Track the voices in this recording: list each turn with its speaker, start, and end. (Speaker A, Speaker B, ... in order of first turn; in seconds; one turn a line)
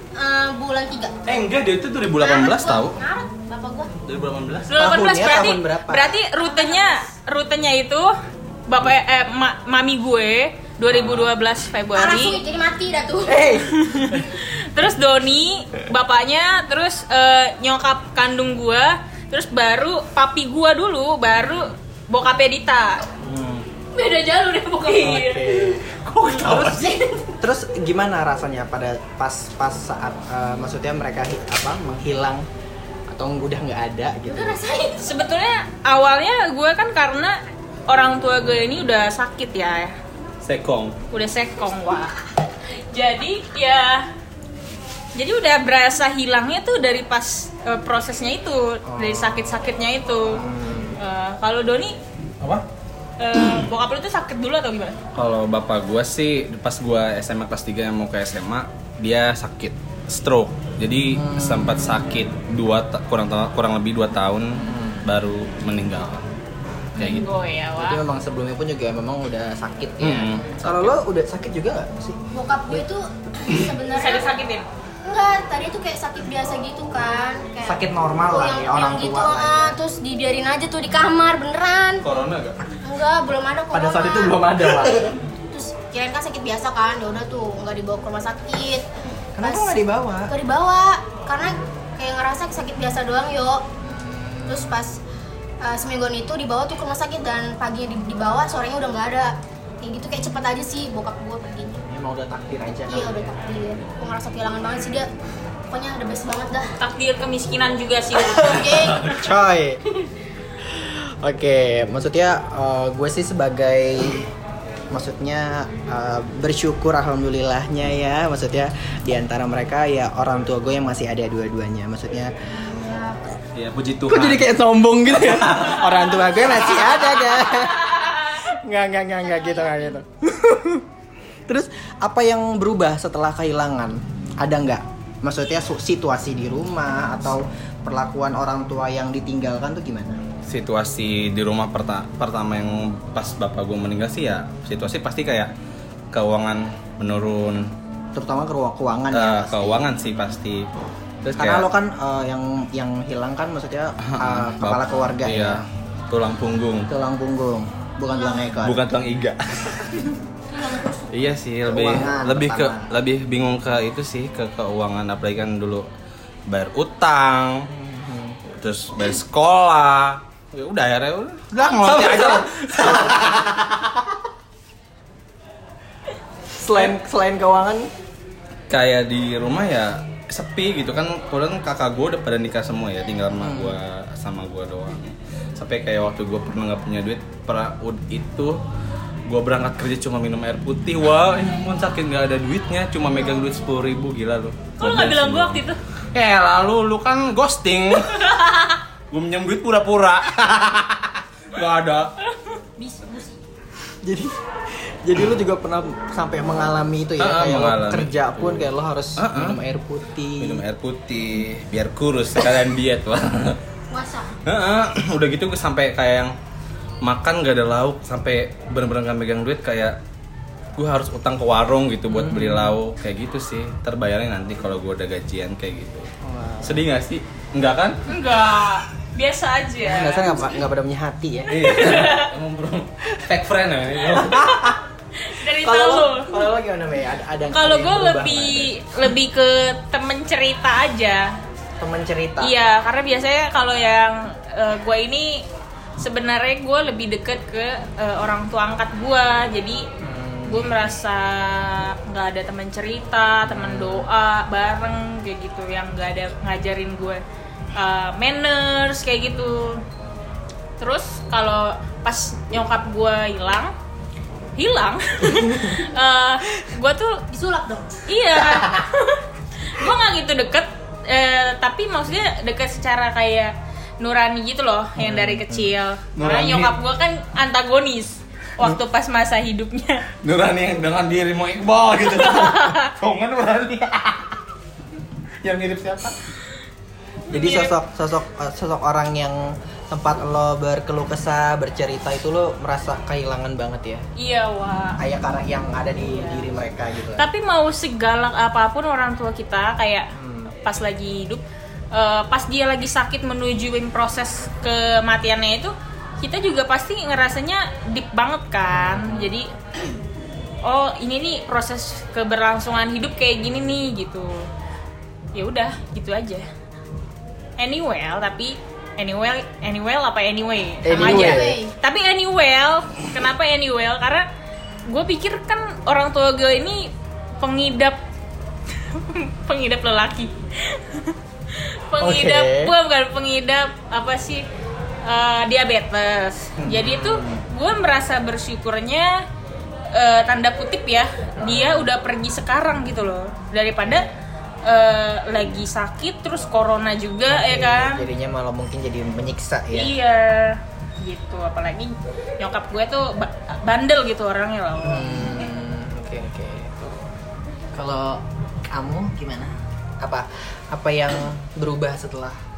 Speaker A: 0.1-1.1
Speaker B: 1.2-3.0
Speaker A: 2.2-3.9
Speaker B: 4.0-4.7
Speaker C: 4.7-8.1
Speaker D: 4.7-6.2
Speaker A: 6.4-7.1
Speaker C: 8.7-12.4
Speaker B: 10.9-11.3
Speaker A: 11.9-13.6
Speaker D: 13.2-13.8
Speaker C: 13.6-23.1
Speaker B: 23.2-23.6
Speaker A: 23.9-25.7
Speaker C: 24.8-25.4
Speaker D: 25.0-25.9
Speaker B: 25.8-27.0
Speaker A: 26.6-27.2
Speaker D: 27.4-32.5
Speaker D: 33.1-34.6
Speaker A: 34.2-35.1
Speaker C: 35.0-39.9
Speaker B: 40.4-41.0
Speaker C: 41.1-42.1
Speaker C: 42.9-44.1
Speaker C: 45.1-52.0
Speaker D: 48.9-49.6
Speaker D: 50.3-51.0
Speaker C: 53.2-55.0
Speaker B: 55.1-66.2
Speaker D: 61.1-62.0
Speaker D: 64.6-65.0
Speaker B: 67.0-67.2
Speaker C: 67.0-68.0
Speaker D: 67.8-72.8
Speaker B: 70.0-71.0
Speaker A: 72.3-74.3
Speaker C: 73.9-74.7
Speaker A: 75.0-82.0
Speaker D: 77.6-79.8
Speaker B: 82.0-82.6
Speaker A: 82.8-84.4
Speaker D: 83.7-85.2
Speaker A: 85.5-88.9
Speaker D: 89.3-90.3
Speaker A: 89.4-89.8
Speaker A: 90.3-93.6
Speaker D: 93.8-94.8
Speaker A: 94.5-95.0
Speaker A: 95.6-101.8
Speaker D: 101.9-103.3
Speaker A: 102.9-105.1
Speaker A: 105.7-106.7
Speaker C: 106.8-108.9
Speaker A: 108.2-109.1
Speaker D: 109.0-109.8
Speaker D: 110.6-114.3
Speaker D: 114.9-122.3
Speaker A: 122.7-123.4
Speaker B: 123.5-124.5
Speaker D: 124.1-130.8
Speaker B: 125.1-126.0
Speaker A: 129.2-129.9
Speaker D: 131.5-140.2
Speaker B: 140.5-145.5
Speaker B: 146.1-147.7
Speaker D: 148.1-150.0
Speaker B: 149.1-150.7
Speaker B: 151.2-151.7
Speaker D: 151.3-155.6
Speaker B: 154.0-156.9
Speaker D: 156.9-158.8
Speaker A: 158.1-158.5
Speaker B: 158.6-160.1
Speaker A: 160.5-161.2
Speaker B: 161.1-165.9
Speaker D: 161.7-162.9
Speaker B: 166.5-167.7
Speaker D: 167.7-168.4
Speaker B: 168.5-173.9
Speaker D: 171.6-173.5
Speaker D: 176.5-177.9
Speaker B: 178.7-188.6
Speaker D: 183.4-183.8
Speaker B: 189.3-198.5
Speaker C: 194.8-195.8
Speaker B: 199.1-202.1
Speaker A: 202.8-203.4
Speaker D: 204.0-210.6
Speaker B: 207.2-209.6
Speaker B: 210.4-213.6
Speaker A: 213.9-214.3
Speaker B: 214.4-216.3
Speaker B: 217.0-220.0
Speaker B: 220.8-226.1
Speaker D: 222.1-222.7
Speaker D: 226.2-226.8
Speaker B: 226.6-228.0
Speaker C: 228.1-230.3
Speaker D: 229.8-231.7
Speaker B: 231.5-234.7
Speaker C: 231.7-232.3
Speaker D: 234.2-234.8
Speaker C: 235.2-236.3
Speaker D: 235.5-238.7
Speaker C: 237.5-241.3
Speaker D: 241.8-242.5
Speaker C: 242.4-245.4
Speaker C: 246.0-249.8
Speaker D: 250.0-250.9
Speaker C: 250.4-257.2
Speaker D: 253.4-254.1
Speaker C: 257.7-259.8
Speaker C: 260.8-263.7
Speaker C: 264.6-267.2
Speaker A: 267.3-268.0
Speaker C: 268.1-280.1
Speaker D: 274.9-275.7
Speaker B: 276.1-276.7
Speaker B: 280.2-284.4
Speaker C: 282.2-282.9
Speaker B: 285.4-286.2
Speaker C: 287.3-287.7
Speaker D: 287.3-294.0
Speaker C: 294.2-295.0
Speaker D: 295.0-297.3
Speaker C: 296.1-296.4
Speaker C: 297.2-300.1
Speaker D: 300.1-300.5
Speaker C: 300.6-309.5
Speaker D: 308.7-309.3
Speaker C: 310.6-314.5
Speaker C: 315.3-316.4
Speaker C: 317.6-324.3
Speaker D: 320.8-321.6
Speaker A: 320.9-321.7
Speaker C: 324.9-328.0
Speaker C: 328.8-334.4
Speaker D: 332.0-332.7
Speaker C: 335.0-339.2
Speaker D: 336.6-337.4
Speaker C: 339.9-344.1
Speaker D: 341.4-341.9
Speaker C: 344.6-348.1
Speaker D: 347.3-349.9
Speaker C: 349.7-355.1
Speaker D: 354.8-356.9
Speaker D: 357.7-362.4